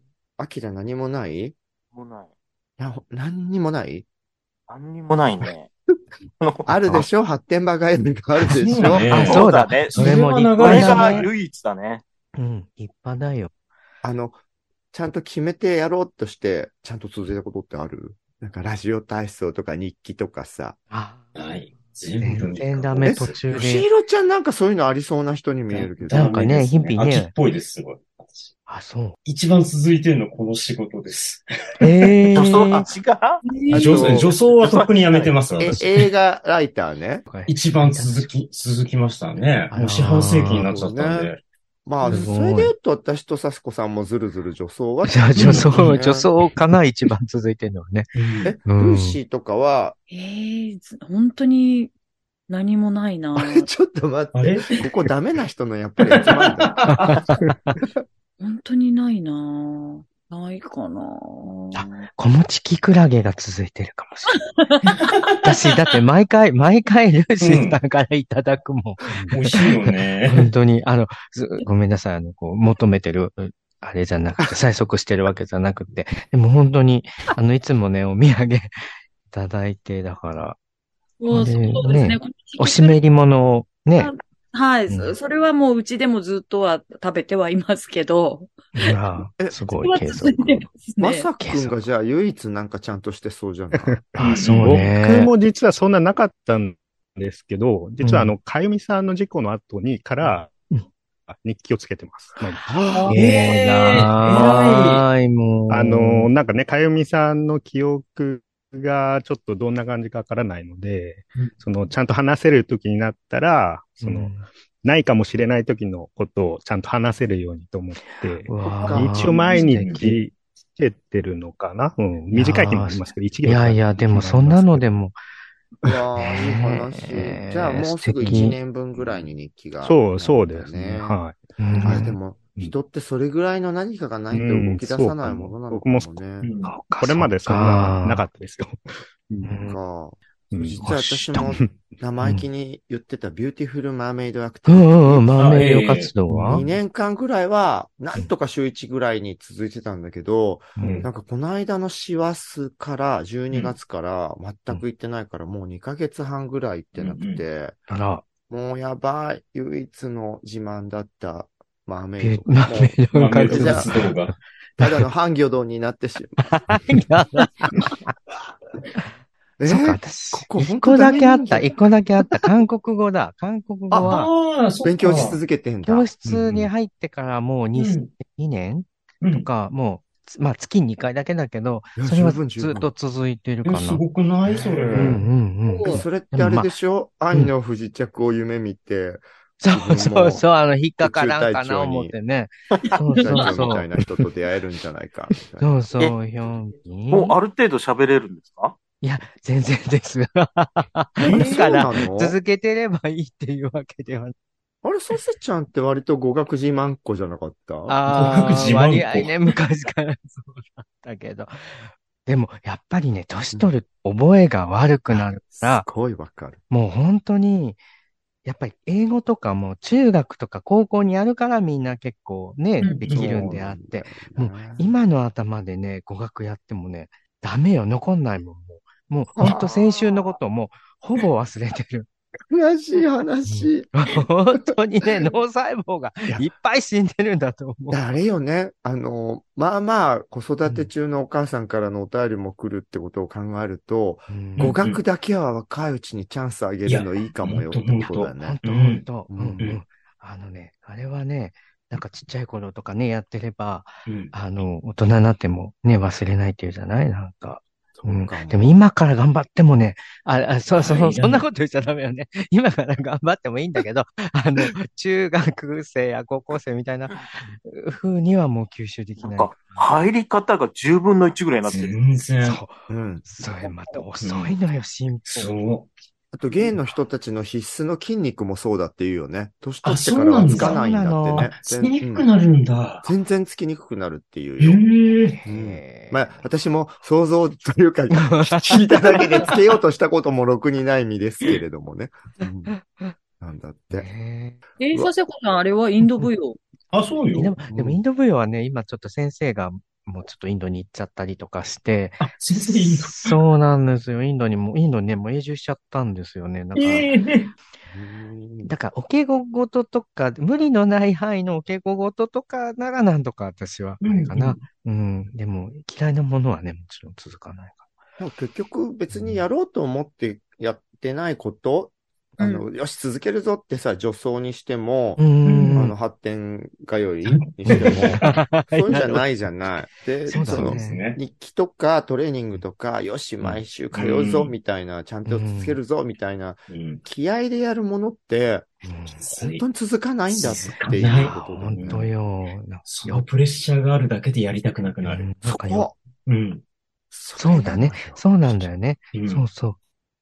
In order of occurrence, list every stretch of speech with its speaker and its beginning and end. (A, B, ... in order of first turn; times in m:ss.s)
0:00.4-0:01.6 A
0:01.9-0:02.3 B
0:02.8-0:04.1 A
0:04.7-0:05.7 B
0:06.4-0:06.7 B
0:06.7-0:09.1 A
0:08.5-0:11.3 C
0:09.1-0:11.3 D
0:09.2-0:12.0 B
0:12.4-0:13.5 D
0:14.0-0:14.4 A
0:14.9-0:20.8 A
0:20.9-0:21.3 D
0:21.4-0:23.4 C
0:22.2-0:23.9 D
0:23.0-0:26.3 A
0:25.7-0:27.3 D
0:26.0-0:28.5 C
0:28.7-0:29.2 D
0:29.3-0:31.8 C
0:31.8-0:32.8 D
0:32.4-0:33.4 B
0:33.7-0:34.3 A
0:33.7-0:35.8 C
0:34.6-0:35.3 B
0:35.6-0:37.3 A
0:37.3-0:38.3 D
0:37.5-0:41.4 C
0:39.7-0:40.7 D
0:40.6-0:41.3 A
0:41.8-0:46.3 A
0:42.1-0:42.7 D
0:45.1-0:48.1 D
0:45.4-0:45.9 C
0:48.2-0:48.6 C
0:48.4-0:50.0 A
0:48.7-0:49.2 D
0:50.1-0:51.9 E
0:52.5-0:53.7 E
0:53.4-0:56.8 A
0:54.4-0:55.1 C
0:56.0-0:57.3 C
0:56.9-0:57.6 D
0:58.4-1:02.1 E
1:01.7-1:04.4 D
1:04.3-1:04.9 E
1:04.9-1:05.5 C
1:05.4-1:09.6 D
1:07.4-1:07.8 C
1:09.3-1:10.5 C
1:10.3-1:18.8 D
1:19.3-1:20.6 D
1:21.2-1:23.0 E
1:21.3-1:24.1 D
1:24.0-1:29.0 E
1:24.9-1:25.1 D
1:28.8-1:30.5 D
1:29.4-1:34.1 A
1:29.8-1:31.3 E
1:31.4-1:31.8 D
1:33.7-1:40.5 F
1:34.2-1:35.3 D
1:34.2-1:34.9 C
1:38.0-1:38.4 D
1:41.3-1:42.8 F
1:42.6-1:43.2 A
1:43.1-1:46.3 D
1:43.1-1:45.1 C
1:45.7-2:04.9 F
1:54.0-1:54.5 D
1:58.1-1:59.4 D
1:58.8-1:59.2 A
1:59.4-2:00.1 C
2:02.3-2:05.2 D
2:05.8-2:11.2 A
2:06.2-2:08.6 D
2:09.8-2:12.7 F
2:11.6-2:12.2 D
2:11.8-2:16.5 A
2:14.3-2:16.2 F
2:16.4-2:16.8 C
2:16.6-2:18.3 D
2:17.0-2:19.8 F
2:19.4-2:19.8 D
2:19.6-2:25.3 A
2:20.5-2:21.8 F
2:22.2-2:22.5 D
2:24.7-2:26.6 D
2:25.4-2:26.6 C
2:26.5-2:37.8 A
2:30.8-2:31.1 D
2:30.8-2:31.1 C
2:37.0-2:37.4 C
2:37.9-2:38.2 D
2:38.5-2:43.9 A
2:42.2-2:44.1 D
2:43.1-2:44.4 C
2:44.8-2:46.4 A
2:46.5-2:48.0 D
2:49.6-2:51.8 A
2:49.7-2:54.3 D
2:53.9-2:54.3 A
2:54.0-2:55.4 C
2:54.8-2:56.1 A
2:55.8-3:04.0 D
2:56.3-2:56.7 C
2:57.7-2:58.1 C
2:59.2-2:59.5 C
3:02.0-3:02.9 A
3:03.6-3:05.3 C
3:04.5-3:05.2 A
3:04.9-3:06.7 D
3:05.8-3:10.5 A
3:09.6-3:13.9 D
3:11.0-3:12.2 A
3:13.2-3:13.8 C
3:13.2-3:15.7 A
3:15.6-3:17.4 D
3:17.1-3:18.8 B
3:19.0-3:24.3 D
3:21.2-3:21.8 C
3:21.3-3:22.4 A
3:24.8-3:28.0 A
3:27.9-3:35.9 D
3:28.1-3:29.6 C
3:35.1-3:36.6 A
3:36.7-3:37.8 D
3:38.4-3:52.1 D
3:42.8-3:43.5 C
3:43.1-3:45.0 A
3:49.4-3:49.7 A
3:52.5-3:53.9 A
3:53.5-3:58.0 D
3:57.9-4:08.6 A
4:04.3-4:04.8 D
4:04.6-4:05.0 C
4:06.8-4:09.1 C
4:08.0-4:29.5 D
4:09.3-4:09.6 A
4:14.1-4:14.3 C
4:18.0-4:18.8 A
4:20.8-4:21.4 C
4:29.2-4:31.9 B
4:31.7-4:32.6 C
4:32.4-4:35.5 D
4:32.9-4:33.3 A
4:34.2-4:34.6 C
4:35.3-4:35.9 C
4:36.3-4:42.3 A
4:39.8-4:43.1 C
4:40.5-4:41.5 D
4:43.0-4:44.8 A
4:44.6-4:45.4 C
4:45.4-4:46.4 D
4:45.4-4:52.7 A
4:48.1-4:49.0 D
4:53.4-4:54.1 A
4:53.9-4:54.6 D
4:54.8-4:56.6 E
4:56.9-4:57.6 C
4:57.4-5:07.1 D
4:57.7-4:58.0 A
5:02.2-5:03.4 C
5:06.8-5:07.5 C
5:07.9-5:08.7 A
5:08.6-5:17.9 D
5:14.0-5:14.6 C
5:18.2-5:42.0 A
5:22.4-5:22.7 E
5:25.2-5:26.0 D
5:25.4-5:25.8 C
5:27.3-5:28.4 C
5:27.7-5:29.3 D
5:30.3-5:31.0 D
5:30.4-5:31.2 C
5:33.4-5:34.6 C
5:35.2-5:35.8 D
5:36.7-5:37.0 C
5:38.8-5:39.2 D
5:39.2-5:39.6 C
5:40.3-5:42.1 C
5:40.4-5:43.3 D
5:42.9-5:45.3 C
5:45.0-5:45.9 D
5:45.4-5:46.0 A
5:46.3-5:46.6 C
5:47.1-5:48.7 A
5:47.4-5:49.8 D
5:49.1-5:49.5 C